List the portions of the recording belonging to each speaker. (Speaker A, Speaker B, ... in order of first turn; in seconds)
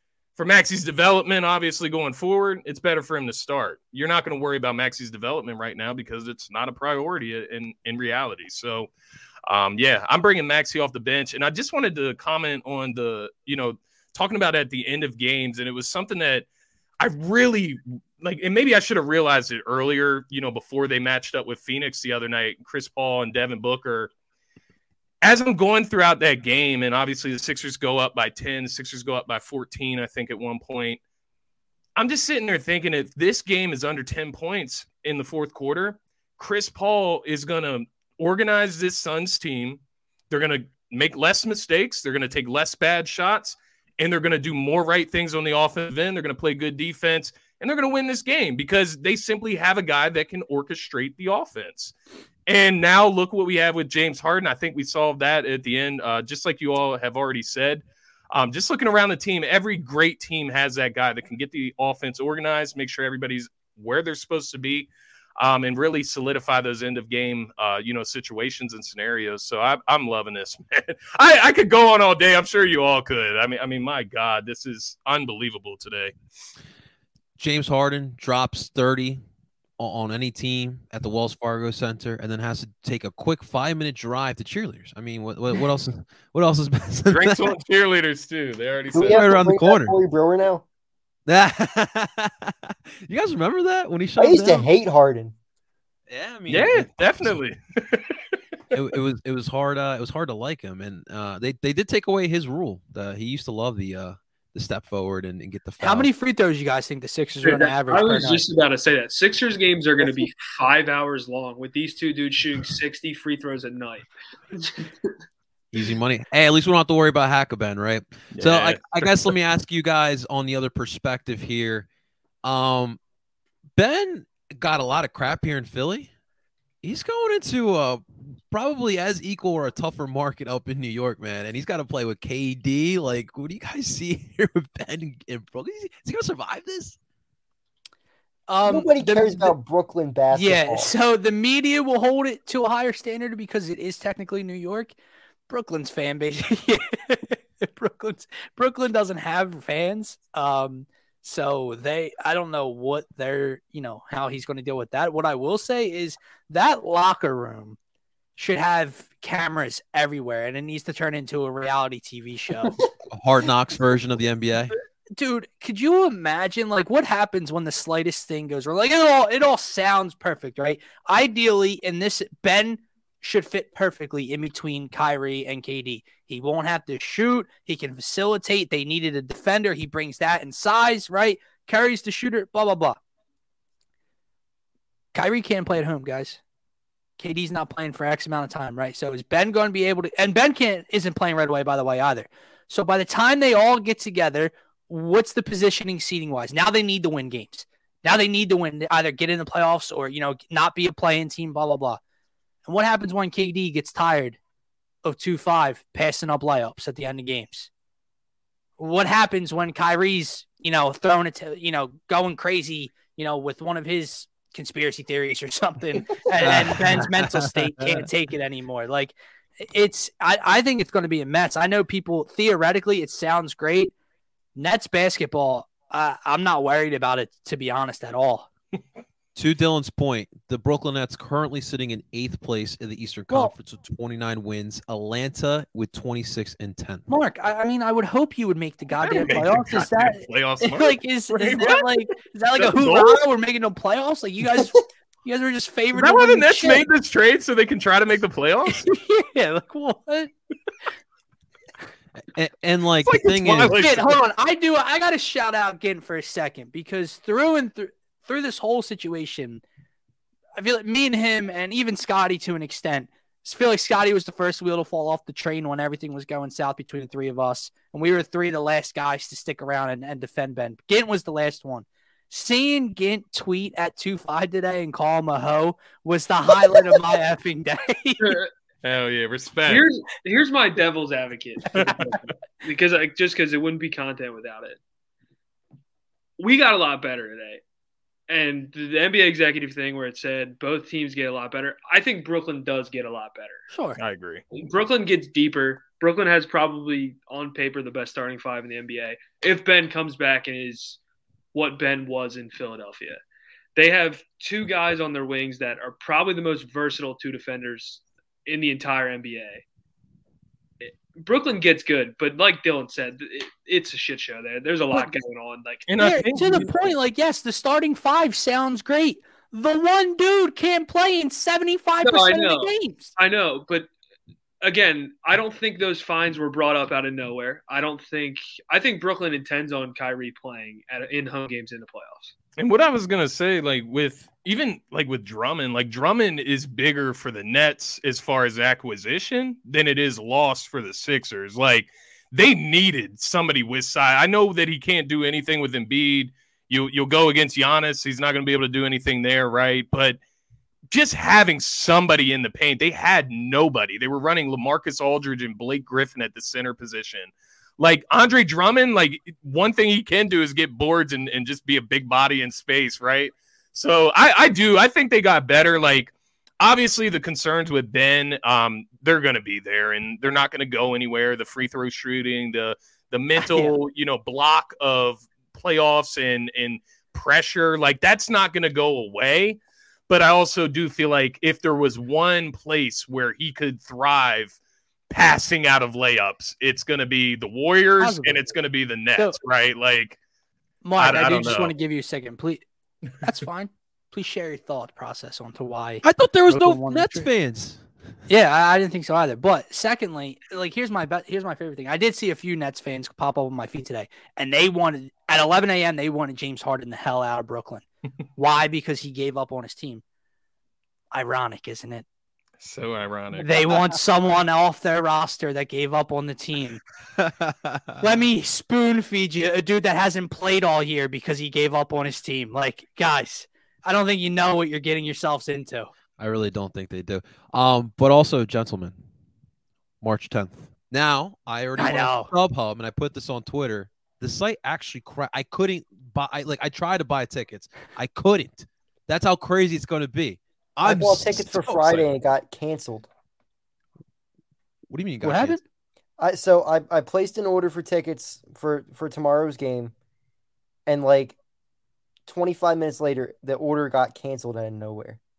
Speaker A: 0.3-8.9, 9.5-16.5, 17.0-24.1, 25.2-31.0, 31.9-51.9, 52.5-76.1, 87.1-89.2, 96.5-98.2, 118.3-119.3, 239.0-241.8, 242.6-243.2, 245.9-248.8, 253.0-254.2, 278.8-279.9, 294.0-294.4, 315.9-316.7, 332.6-350.2, 350.9-384.6, 385.1-390.2, 391.0-391.7, 412.6-413.5
Speaker B: 77.4-79.2, 79.8-87.4, 89.0-89.9, 91.3-94.7, 96.1-97.4, 98.7-106.1, 115.7-121.9, 122.4-123.0, 123.8-126.1, 126.8-137.0, 163.1-164.7, 216.4-218.0, 229.3-237.0, 252.3-253.8, 396.0-397.9, 417.2-418.0, 426.2-428.9, 430.0-442.1, 444.9-445.6
Speaker C: 88.9-90.7, 94.2-95.3, 138.7-140.9, 440.8-443.1, 446.2-449.9, 450.9-451.4, 452.3-455.2
Speaker D: 105.8-108.4, 138.5-139.6, 140.3-144.9, 145.5-157.8, 158.4-162.8, 165.1-183.0, 185.1-186.4, 187.2-202.0, 202.7-204.4, 205.0-207.7, 208.8-223.9, 224.6-228.5, 237.1-246.9, 248.7-250.3, 253.8-259.6, 260.6-278.4, 293.7-294.0, 316.0-323.1, 373.4-373.7, 388.0-388.4, 390.8-392.6, 393.2-397.3, 398.3-410.0, 411.1-412.0, 413.3-416.8, 418.0-425.9, 431.8-432.3, 445.2-445.6
Speaker E: 107.4-115.1, 278.2-278.5, 279.7-284.8, 286.4-287.6, 288.3-293.7, 294.5-301.0, 301.5-303.2, 303.8-309.6, 310.8-315.9, 322.0-323.9, 324.6-332.3